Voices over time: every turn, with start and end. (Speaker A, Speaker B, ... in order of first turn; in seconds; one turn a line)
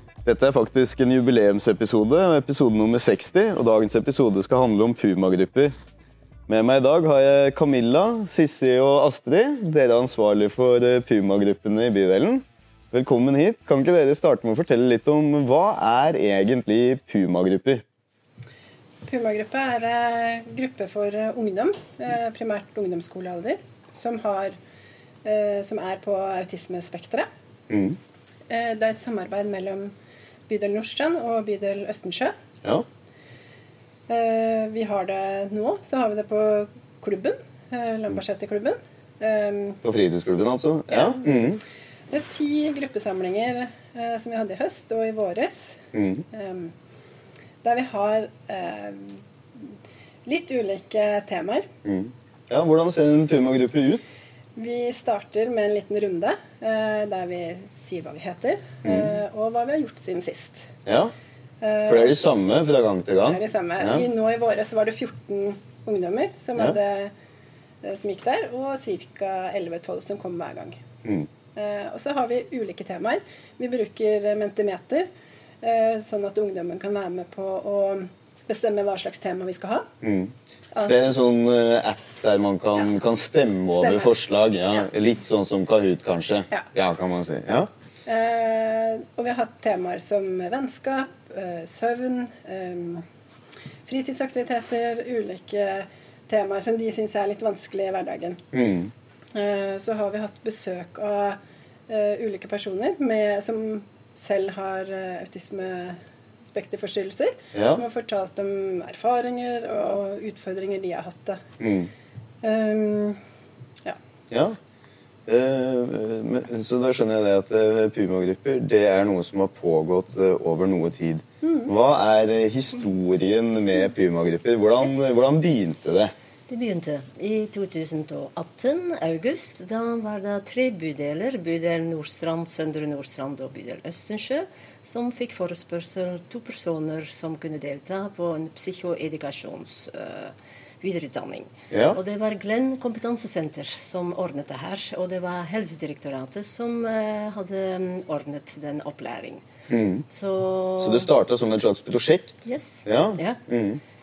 Speaker A: 0.2-5.7
Speaker A: 6.5-17.8
Speaker B: 19.0-24.6
Speaker B: 25.2-27.3
Speaker A: 27.7-28.0
Speaker B: 28.5-29.9
Speaker B: 30.5-32.3
Speaker B: 34.1-39.8
Speaker A: 39.8-41.6
Speaker B: 40.9-41.2
Speaker B: 42.1-46.7
Speaker A: 45.9-46.2
Speaker B: 47.6-49.7
Speaker B: 50.2-51.7
Speaker A: 51.9-54.2
Speaker B: 54.5-60.7
Speaker A: 60.9-61.1
Speaker B: 61.6-62.2
Speaker A: 61.9-64.0
Speaker B: 63.3-67.1
Speaker B: 67.8-70.8
Speaker B: 71.5-75.1
Speaker B: 75.6-79.9
Speaker A: 80.0-87.7
Speaker B: 83.7-84.1
Speaker B: 88.0-93.0
Speaker B: 93.8-98.4
Speaker A: 98.5-98.9
Speaker B: 99.3-111.4
Speaker A: 107.5-107.8
Speaker A: 111.6-111.9
Speaker B: 112.4-113.2
Speaker A: 114.3-114.5
Speaker A: 115.3-126.1
Speaker B: 121.4-121.7
Speaker C: 126.5-149.4
Speaker A: 141.7-142.0
Speaker A: 149.7-150.0
Speaker C: 150.1-151.1
Speaker A: 150.8-153.8
Speaker C: 152.4-153.4